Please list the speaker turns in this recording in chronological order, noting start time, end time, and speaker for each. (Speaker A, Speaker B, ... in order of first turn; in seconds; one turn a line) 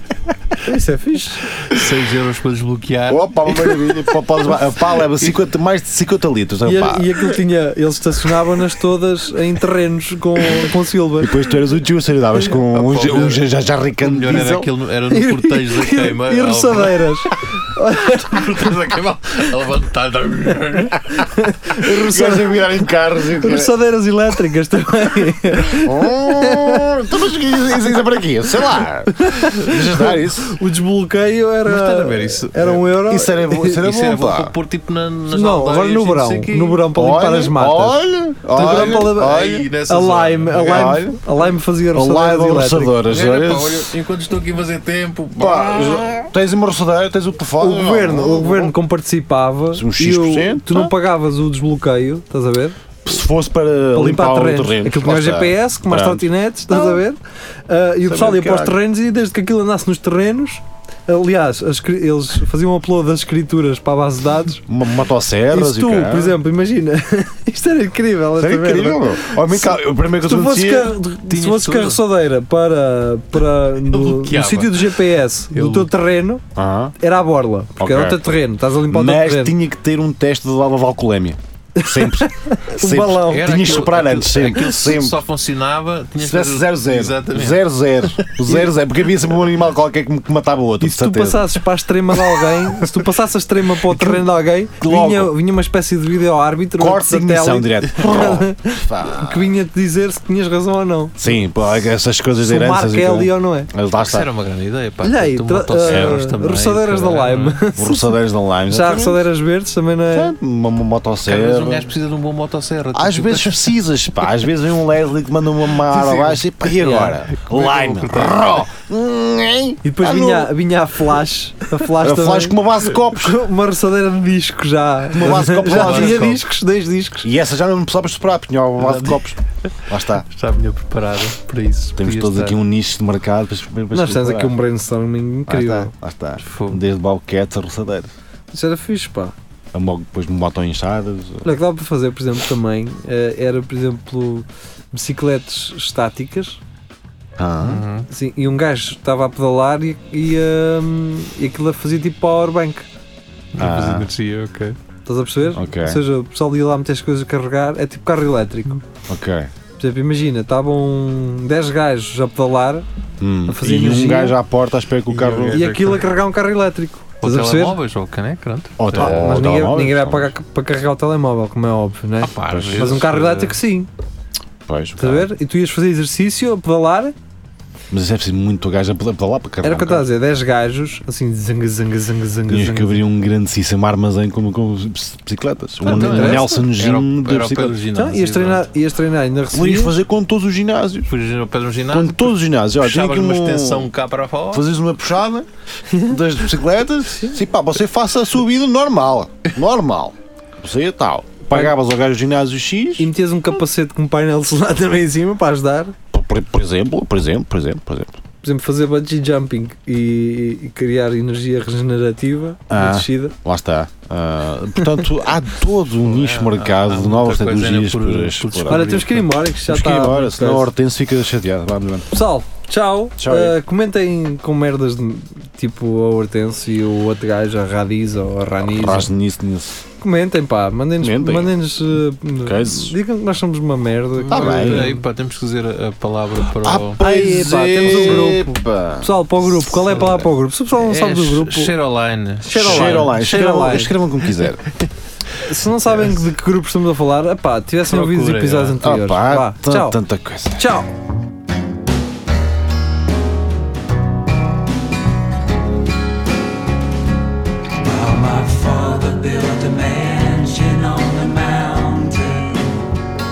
Speaker A: 0.6-1.5
Speaker B: 1.6-4.0
Speaker C: 3.1-7.1
Speaker A: 6.6-11.4
Speaker C: 11.2-14.7
Speaker B: 12.5-13.4
Speaker B: 14.0-17.1
Speaker A: 15.1-18.4
Speaker B: 18.1-21.3
Speaker A: 21.2-22.6
Speaker C: 21.9-23.7
Speaker A: 23.4-27.1
Speaker C: 25.8-30.6
Speaker A: 29.1-33.8
Speaker B: 31.7-32.8
Speaker C: 32.9-34.5
Speaker B: 33.6-36.9
Speaker A: 35.3-43.0
Speaker C: 36.9-39.7
Speaker B: 38.6-41.0
Speaker C: 40.5-41.4
Speaker C: 41.9-43.9
Speaker B: 43.1-46.2
Speaker C: 45.4-48.7
Speaker A: 47.6-52.8
Speaker C: 49.7-50.9
Speaker C: 53.0-57.0
Speaker A: 53.9-57.2
Speaker A: 57.7-64.6
Speaker C: 58.0-58.8
Speaker C: 64.7-66.4
Speaker A: 65.5-76.4
Speaker C: 68.4-71.0
Speaker B: 71.3-72.0
Speaker B: 73.8-75.9
Speaker C: 76.5-76.9
Speaker A: 77.0-79.5
Speaker C: 77.8-85.2
Speaker A: 81.8-83.6
Speaker B: 83.2-87.6
Speaker C: 86.2-93.1
Speaker A: 90.8-101.3
Speaker C: 93.8-95.3
Speaker C: 96.8-99.5
Speaker C: 101.2-104.3
Speaker A: 102.4-103.7
Speaker B: 104.0-107.6
Speaker A: 105.0-108.1
Speaker C: 105.8-106.2
Speaker C: 107.8-109.3
Speaker A: 108.7-110.3
Speaker C: 110.1-111.9
Speaker B: 111.3-113.7
Speaker C: 112.9-120.5
Speaker B: 115.9-118.5
Speaker A: 116.8-117.1
Speaker A: 119.8-127.3
Speaker C: 121.9-123.4
Speaker C: 125.1-126.4
Speaker B: 125.3-126.3
Speaker C: 127.2-130.3
Speaker B: 128.8-129.3
Speaker B: 130.3-132.6
Speaker C: 131.9-134.6
Speaker A: 133.9-135.9
Speaker C: 135.5-138.1
Speaker B: 136.4-136.8
Speaker A: 138.5-139.3
Speaker C: 139.7-141.4
Speaker A: 141.4-146.6
Speaker C: 147.4-147.9
Speaker B: 147.6-148.1
Speaker A: 148.1-152.9
Speaker B: 153.5-154.8
Speaker C: 153.6-154.1
Speaker A: 155.1-158.8
Speaker C: 155.5-156.0
Speaker C: 159.1-159.5
Speaker A: 159.8-162.8
Speaker C: 163.2-165.6
Speaker A: 163.5-164.4
Speaker B: 165.1-166.1
Speaker A: 165.5-167.8
Speaker B: 167.2-169.3
Speaker C: 168.8-170.3
Speaker A: 168.9-173.9
Speaker B: 172.2-173.6
Speaker C: 172.4-173.0
Speaker C: 174.7-175.3
Speaker A: 175.0-177.1
Speaker C: 177.9-180.1
Speaker A: 179.6-183.0
Speaker C: 182.5-187.8
Speaker B: 185.8-188.7
Speaker A: 185.8-186.6
Speaker A: 187.9-190.0
Speaker C: 189.5-191.1
Speaker B: 191.1-194.6
Speaker C: 191.9-193.9
Speaker C: 194.5-203.1
Speaker A: 203.0-205.9
Speaker C: 206.1-208.2
Speaker A: 208.4-213.3
Speaker C: 212.7-219.0
Speaker B: 216.1-219.3
Speaker A: 218.7-220.7
Speaker C: 219.7-222.1
Speaker A: 222.1-229.1
Speaker C: 223.2-223.6
Speaker C: 228.6-229.8
Speaker A: 230.0-235.0
Speaker C: 231.0-231.6
Speaker C: 232.4-233.0
Speaker B: 234.2-237.0
Speaker C: 234.3-234.9
Speaker C: 236.6-239.1
Speaker A: 237.0-241.7
Speaker C: 239.6-240.2
Speaker B: 239.9-243.9
Speaker A: 242.4-243.9
Speaker C: 242.5-244.6
Speaker A: 245.4-250.0
Speaker B: 247.9-248.8
Speaker C: 248.8-250.7
Speaker A: 250.6-250.9
Speaker D: 257.8-262.7